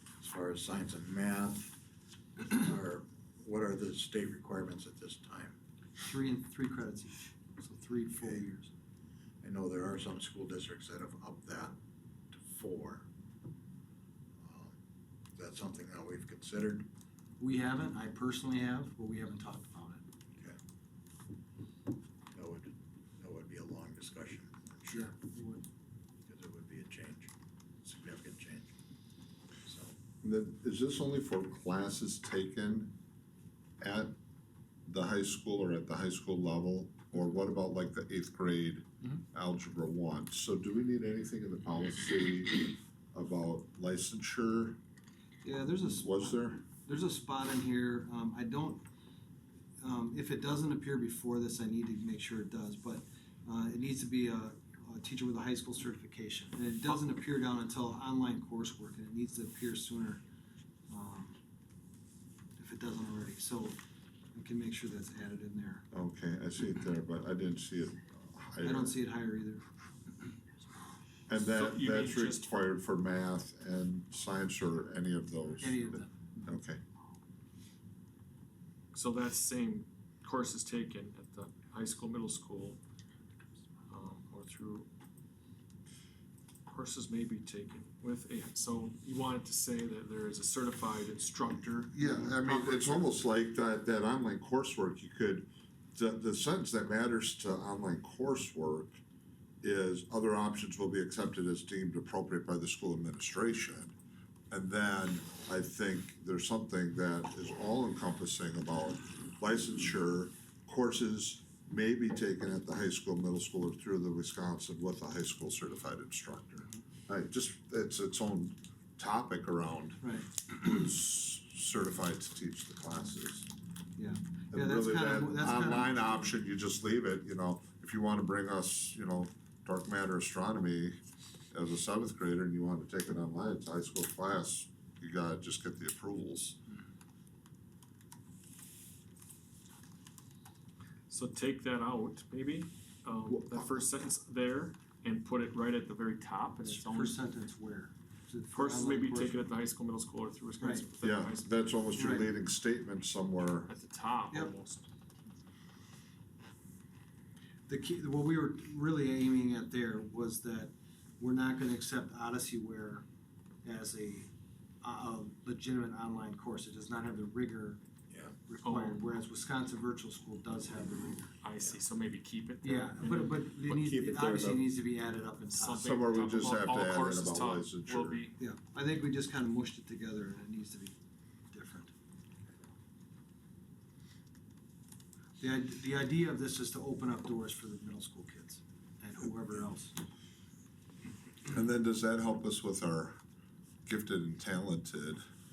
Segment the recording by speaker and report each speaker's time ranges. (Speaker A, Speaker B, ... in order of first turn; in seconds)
Speaker A: 0.2-1.8, 2.4-5.6, 8.2-8.4, 9.4-11.8, 12.3-13.1, 14.4-14.8, 15.3-16.9, 22.3-25.1, 26.3-27.3, 27.8-28.7, 29.7-29.9, 168.1-168.3, 173.7-174.7
Speaker B: 6.0-8.7, 17.4-20.0, 24.9-25.6, 45.4-48.8, 49.8-60.2, 60.9-61.4, 62.6-63.8, 64.3-65.8, 68.6-69.6, 75.6-76.1, 120.0-120.3, 124.0-126.1, 146.6-149.4, 150.6-150.9, 151.9-152.3, 157.7-163.1, 163.6-164.3, 164.8-167.8, 168.5-171.3, 172.6-175.9, 178.4-180.9, 181.5-181.9, 185.4-189.9
Speaker C: 30.2-32.9, 33.8-34.1, 34.9-44.8, 46.0-46.6, 65.9-69.0, 71.3-76.8, 91.9-99.0, 99.6-104.0, 104.5-123.5, 124.5-131.0, 131.5-136.6, 143.3-143.9, 151.0-153.7, 175.8-178.2, 191.4-193.2, 193.9-195.2
Speaker D: 71.3-72.7, 78.9-82.8, 83.9-84.9, 86.7-93.1, 141.1-147.2, 148.5-151.7, 153.7-154.9, 168.6-169.0, 171.4-173.5, 175.5-178.4